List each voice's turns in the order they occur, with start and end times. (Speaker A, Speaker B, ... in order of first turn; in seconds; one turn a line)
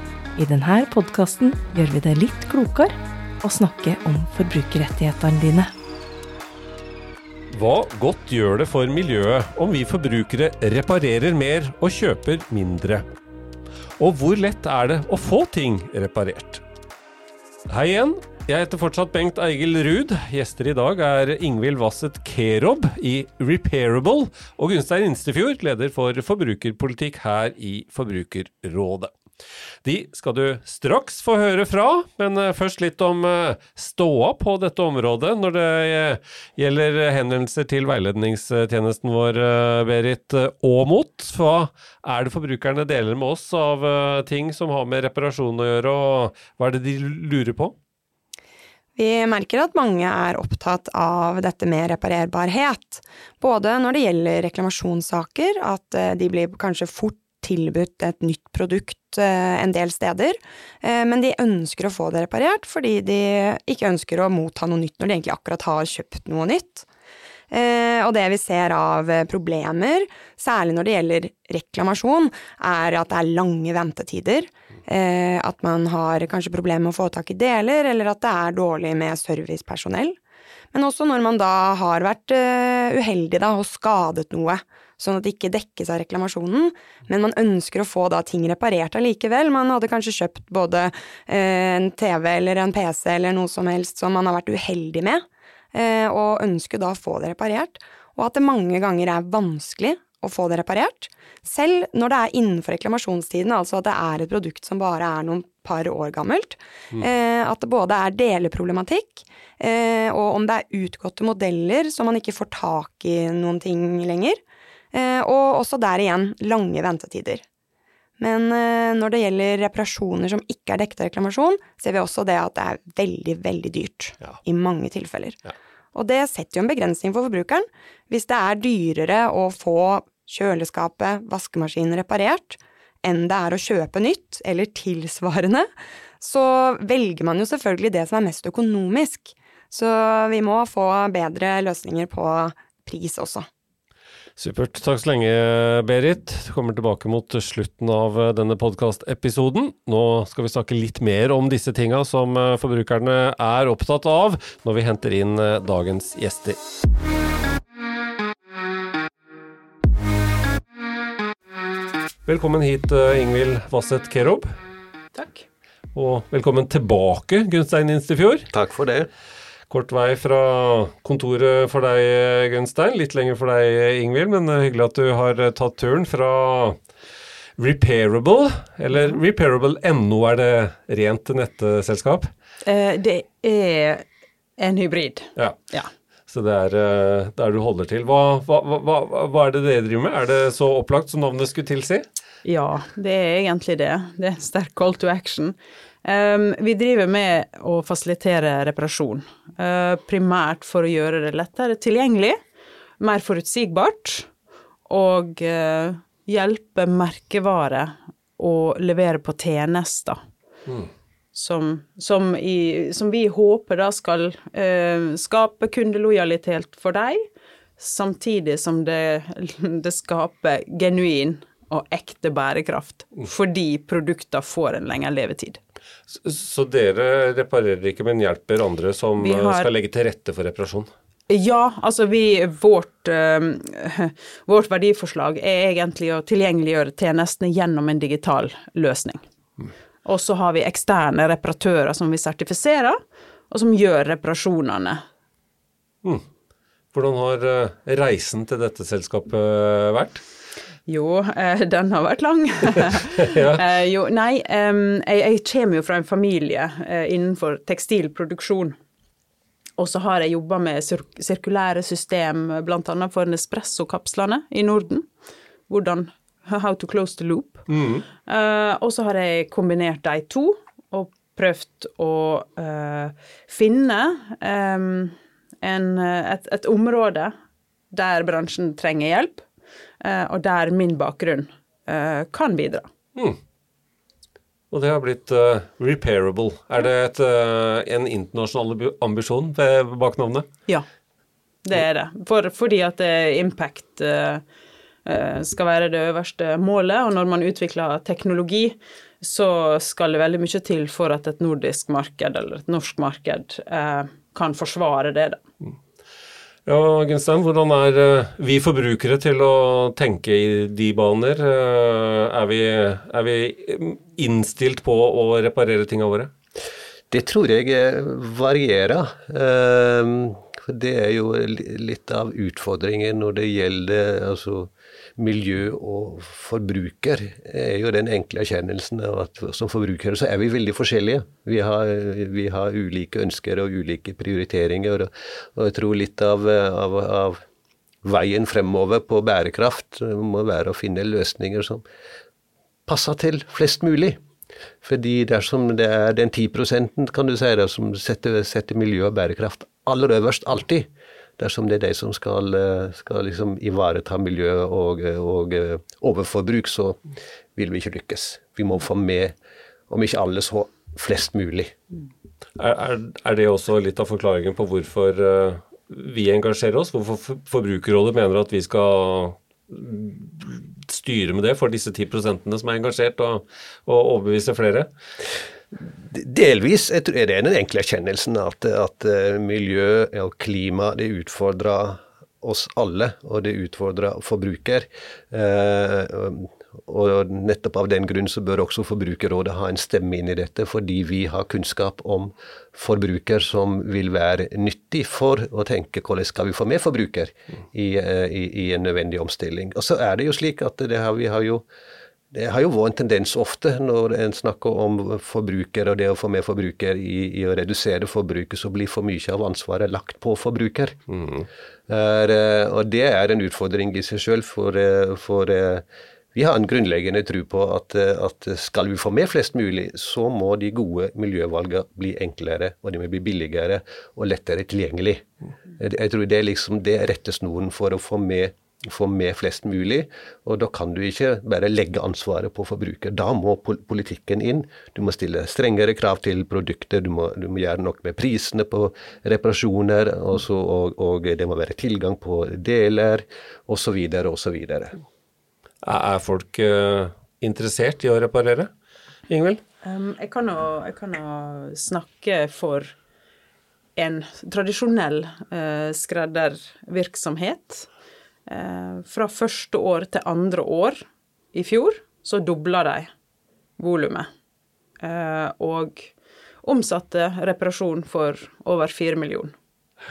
Speaker A: 0.4-5.7
Speaker B: 7.5-13.1
Speaker B: 14.0-16.6
Speaker B: 17.7-29.1
Speaker B: 29.8-47.8
Speaker C: 49.0-66.9
Speaker C: 67.5-80.2
Speaker C: 80.7-114.4
Speaker C: 114.9-117.4
Speaker C: 118.2-125.4
Speaker C: 126.0-135.7
Speaker C: 136.2-143.5
Speaker B: 144.4-156.6
Speaker B: 162.3-164.5
Speaker D: 165.2-165.5
Speaker B: 165.9-168.5
Speaker E: 168.5-169.1
Speaker B: 169.7-176.8
Speaker B: 177.6-182.3
Speaker D: 182.6-184.1
Speaker D: 184.6-185.9
Speaker B: 186.3-192.1
Speaker D: 192.4-202.4
Speaker D: 203.0-204.3
Speaker D: 204.9-210.2
Speaker D: 211.3-217.2
Speaker D: 217.8-225.6
Speaker B: 226.2-230.9
Speaker D: 229.2-229.7
Speaker D: 231.3-239.2
Speaker D: 240.1-243.0
Speaker D: 243.5-245.0
Speaker B: 246.9-250.2
Speaker D: 250.9-258.8
Speaker B: 253.3-253.6
Speaker D: 259.8-265.1
Speaker D: 265.7-277.4
Speaker B: 267.7-268.1
Speaker D: 277.9-279.4
Speaker D: 280.0-282.9
Speaker B: 284.7-290.5
Speaker D: 291.6-294.4
Speaker D: 295.1-305.4
Speaker B: 306.7-316.3
Speaker E: 317.1-337.4
Speaker E: 338.0-341.8
Speaker E: 342.9-344.2
Speaker E: 344.8-357.0
Speaker E: 357.6-359.3
Speaker E: 359.9-361.8
Speaker B: 362.6-374.9
Speaker E: 376.1-401.6
Speaker E: 402.3-411.0
Speaker B: 411.1-411.5
Speaker E: 411.9-445.0
Speaker B: 445.8-448.7
Speaker B: 449.3-449.6
Speaker D: 449.8-452.9
Speaker D: 454.0-457.9
Speaker D: 458.5-463.1
Speaker D: 463.8-464.3
Speaker D: 465.0-466.1
Speaker D: 466.6-469.5